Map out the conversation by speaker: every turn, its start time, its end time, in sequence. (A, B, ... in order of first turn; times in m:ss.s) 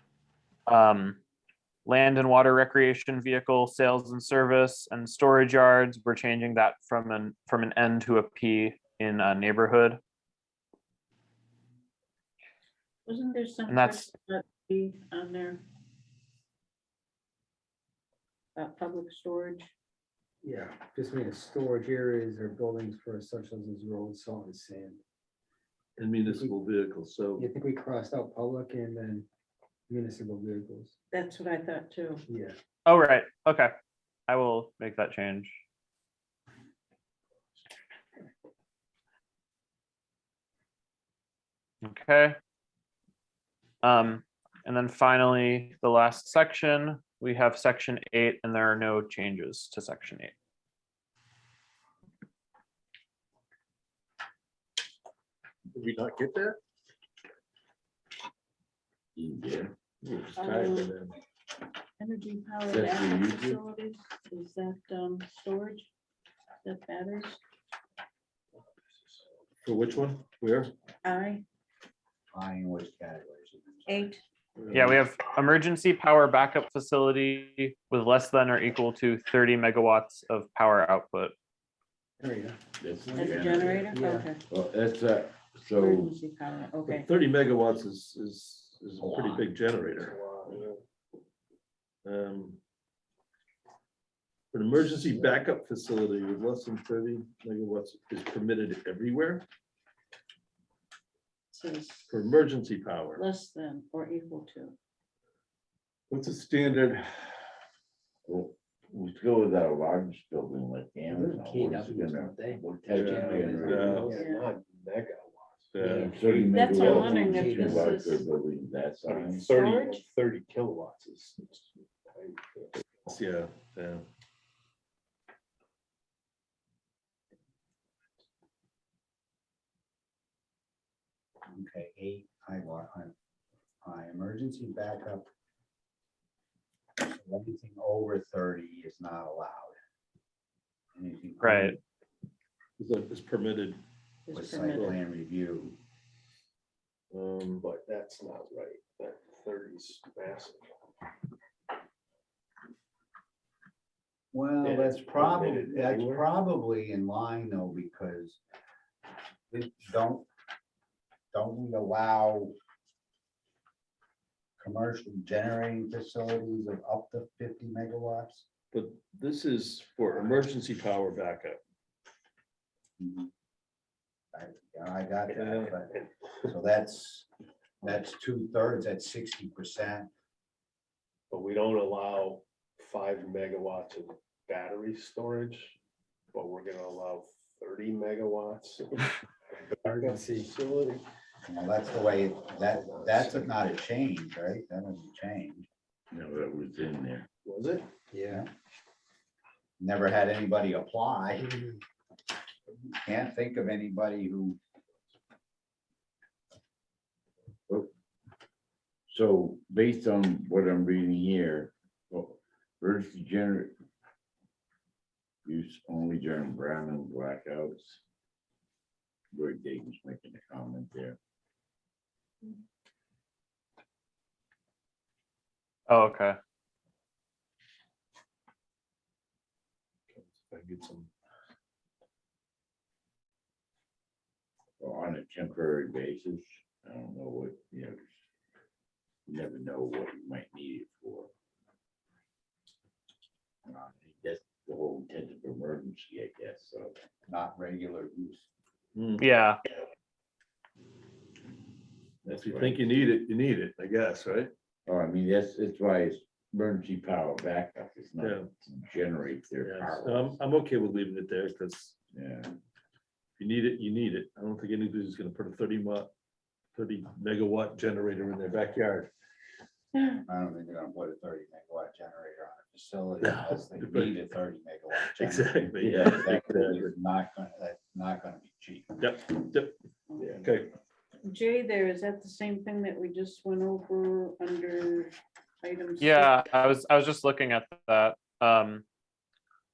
0:00.7-0:01.2 A
0:01.8-0:10.0 A
0:13.0-0:15.6 B
0:13.7-0:14.1 A
0:18.5-0:19.7 B
0:20.4-0:25.0 C
0:26.0-0:27.5 D
0:26.2-0:26.5 C
0:27.4-0:29.3 C
0:29.9-0:30.9 C
0:31.1-0:32.2 B
0:32.3-0:32.6 C
0:32.8-0:33.7 A
0:34.3-0:35.6 A
0:41.8-0:42.4 A
0:43.8-0:50.3 A
0:55.7-0:56.6 D
0:59.1-0:59.7 E
1:00.0-1:01.2 D
1:00.4-1:01.0 B
1:02.0-1:05.9 B
1:02.6-1:03.6 E
1:06.6-1:07.4 B
1:09.6-1:10.7 D
1:11.0-1:11.4 B
1:12.3-1:14.2 F
1:13.9-1:14.2 B
1:14.6-1:15.0 D
1:14.7-1:21.3 A
1:22.2-1:22.6 C
1:22.8-1:23.9 E
1:23.1-1:24.4 B
1:23.9-1:24.3 C
1:24.5-1:26.2 E
1:25.7-1:27.1 B
1:26.8-1:30.6 D
1:29.9-1:30.8 G
1:32.0-1:32.6 D
1:34.5-1:39.5 D
1:41.5-1:42.2 B
1:42.1-1:43.2 D
1:43.1-1:44.8 B
1:46.1-1:47.3 D
1:48.2-1:54.0 E
1:51.1-1:54.2 C
1:52.9-1:54.2 D
1:53.2-1:55.7 G
1:54.1-1:54.5 B
1:55.7-1:56.2 D
1:55.8-1:58.0 C
1:56.0-1:59.5 E
1:56.5-1:58.3 B
1:59.1-2:02.7 G
1:59.4-2:00.0 B
2:03.0-2:04.0 D
2:11.4-2:13.1 F
2:13.8-2:15.3 F
2:17.0-2:19.8 F
2:20.9-2:21.8 F
2:21.4-2:21.8 A
2:22.8-2:23.8 D
2:24.2-2:25.0 B
2:24.3-2:25.8 F
2:27.1-2:27.6 D
2:27.6-2:30.6 G
2:34.3-2:38.4 F
2:34.6-2:36.2 G
2:39.5-2:40.3 F
2:41.3-2:42.5 F
2:44.6-2:48.4 F
2:48.7-2:51.6 D
2:53.0-2:53.3 F
2:54.3-2:55.9 F
2:55.3-2:55.7 D
2:56.4-2:57.3 F
2:57.8-3:00.1 F
3:01.3-3:05.7 G
3:06.3-3:09.1 G
3:09.8-3:10.5 C
3:10.0-3:11.0 G
3:11.5-3:15.7 F
3:12.6-3:13.4 G
3:16.1-3:17.3 E
3:17.4-3:17.9 G
3:18.1-3:18.4 C
3:19.8-3:21.5 F
3:23.0-3:24.6 F
3:29.1-3:33.7 E
3:35.4-3:38.0 E
3:39.3-3:41.2 E
3:45.9-3:46.4 A
3:50.1-3:51.1 D
3:54.8-3:58.1 E
3:59.3-4:01.3 E
4:03.6-4:06.9 E
4:07.3-4:08.4 F
4:08.9-4:09.2 D
4:09.2-4:09.6 A
4:12.2-4:12.8 E
4:12.2-4:14.5 D
4:14.8-4:20.4 E
4:18.2-4:18.5 D
4:19.6-4:22.0 D
4:22.1-4:22.6 E
4:23.4-4:26.1 D
4:26.7-4:29.1 D
4:29.9-4:30.2 B
4:30.3-4:39.0 F
4:33.2-4:34.3 D
4:35.0-4:36.9 D
4:35.8-4:36.3 E
4:39.0-4:39.7 D
4:40.4-4:40.7 D
4:41.2-4:46.5 B
4:46.0-4:48.8 A